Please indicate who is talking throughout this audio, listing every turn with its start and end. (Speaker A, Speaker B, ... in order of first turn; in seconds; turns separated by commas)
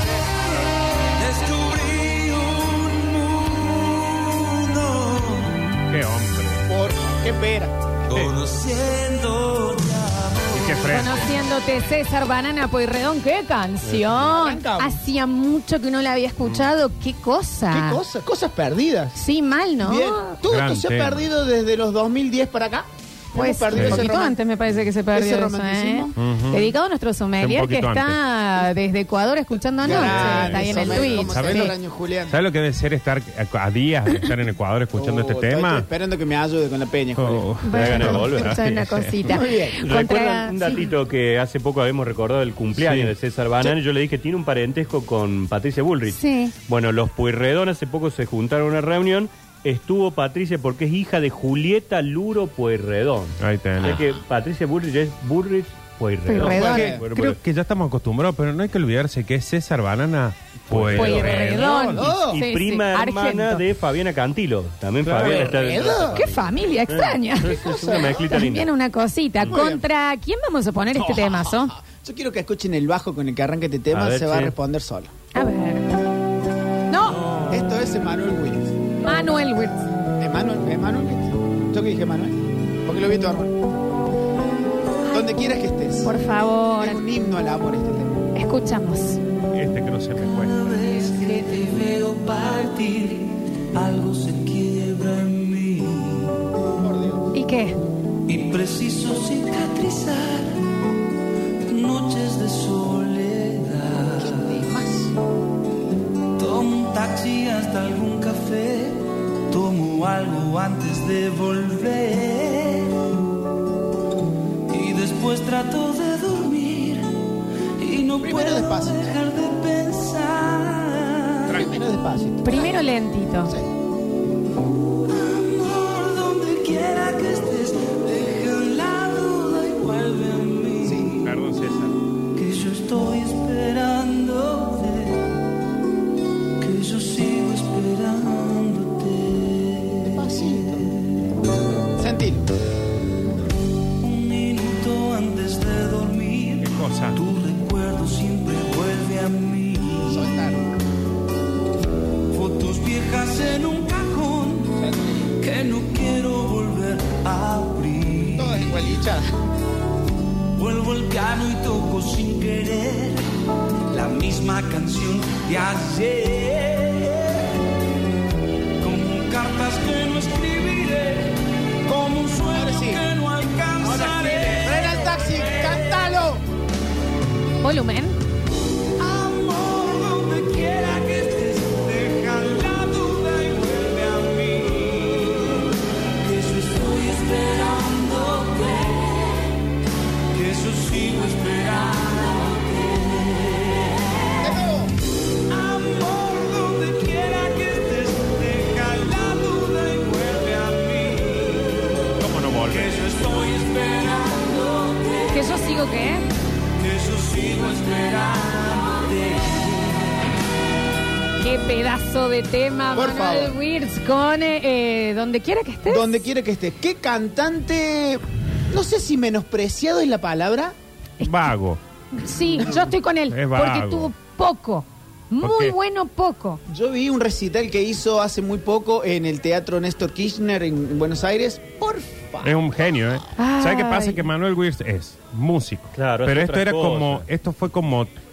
Speaker A: 1.2-5.6, Speaker B: 5.9-6.6, Speaker C: 6.7-7.7, Speaker A: 8.1-11.0, Speaker B: 10.5-11.3, Speaker D: 10.9-18.0, Speaker E: 13.8-14.2, Speaker C: 14.2-15.0, Speaker C: 17.7-19.2, Speaker D: 19.1-20.3, Speaker C: 19.8-24.4, Speaker B: 20.5-21.2, Speaker D: 23.3-31.7, Speaker B: 23.7-24.0, Speaker C: 25.1-26.2, Speaker B: 26.2-26.7, Speaker B: 27.4-28.2, Speaker C: 29.8-32.4, Speaker B: 29.9-31.7, Speaker B: 32.3-35.9, Speaker C: 35.0-37.5, Speaker B: 37.1-39.4, Speaker D: 37.6-40.9, Speaker E: 37.7-38.8, Speaker C: 39.3-39.8, Speaker E: 39.8-57.4, Speaker B: 42.8-43.1, Speaker D: 46.1-46.5, Speaker B: 53.4-54.1, Speaker D: 56.3-57.0, Speaker C: 56.4-57.0, Speaker B: 56.5-62.1, Speaker E: 60.7-61.4, Speaker D: 60.9-63.6, Speaker C: 61.2-62.4, Speaker E: 62.0-68.7, Speaker B: 65.0-65.5, Speaker C: 65.2-66.2, Speaker D: 65.8-71.7, Speaker C: 67.5-68.2, Speaker C: 69.5-69.8, Speaker C: 71.0-75.1, Speaker E: 73.9-74.5, Speaker D: 75.3-75.9, Speaker D: 76.9-77.3, Speaker C: 77.5-78.7, Speaker D: 79.0-79.8, Speaker C: 80.2-83.6, Speaker D: 85.0-85.5, Speaker C: 85.1-86.1, Speaker D: 86.0-87.0, Speaker C: 86.8-88.3, Speaker D: 88.3-89.2, Speaker B: 89.5-90.8, Speaker A: 90.2-96.4, Speaker C: 96.8-97.3, Speaker D: 97.3-97.8, Speaker A: 98.3-100.6, Speaker A: 101.7-104.7, Speaker C: 104.2-105.1, Speaker A: 106.4-113.0, Speaker A: 114.7-117.1, Speaker A: 117.8-121.5, Speaker C: 118.2-119.2, Speaker C: 121.5-122.7, Speaker D: 122.4-123.5, Speaker A: 125.0-131.3, Speaker C: 130.8-131.1, Speaker B: 131.2-131.9, Speaker A: 132.3-135.3, Speaker A: 136.6-140.9, Speaker C: 140.0-140.9, Speaker C: 142.0-142.5, Speaker A: 144.0-150.3, Speaker B: 146.6-147.2, Speaker C: 150.1-150.7, Speaker A: 152.3-154.8, Speaker C: 154.8-155.3, Speaker A: 155.4-158.9, Speaker C: 158.4-159.3, Speaker A: 160.6-163.2, Speaker A: 163.9-167.4, Speaker A: 168.8-171.3, Speaker A: 171.8-175.7, Speaker C: 172.5-173.0, Speaker C: 173.8-176.4, Speaker D: 177.6-178.2, Speaker A: 179.0-185.6, Speaker A: 186.2-189.4, Speaker A: 190.3-194.2, Speaker C: 194.4-194.9, Speaker A: 195.5-201.9, Speaker B: 202.2-202.9, Speaker A: 202.7-205.5, Speaker D: 205.3-206.2, Speaker A: 206.8-210.1, Speaker D: 211.4-216.2, Speaker C: 212.9-213.6, Speaker C: 215.9-220.7, Speaker B: 221.2-221.8, Speaker D: 222.2-226.6, Speaker B: 223.3-224.1, Speaker B: 225.4-225.7, Speaker C: 226.7-232.8, Speaker B: 232.4-238.2, Speaker D: 233.4-234.2, Speaker E: 235.9-237.2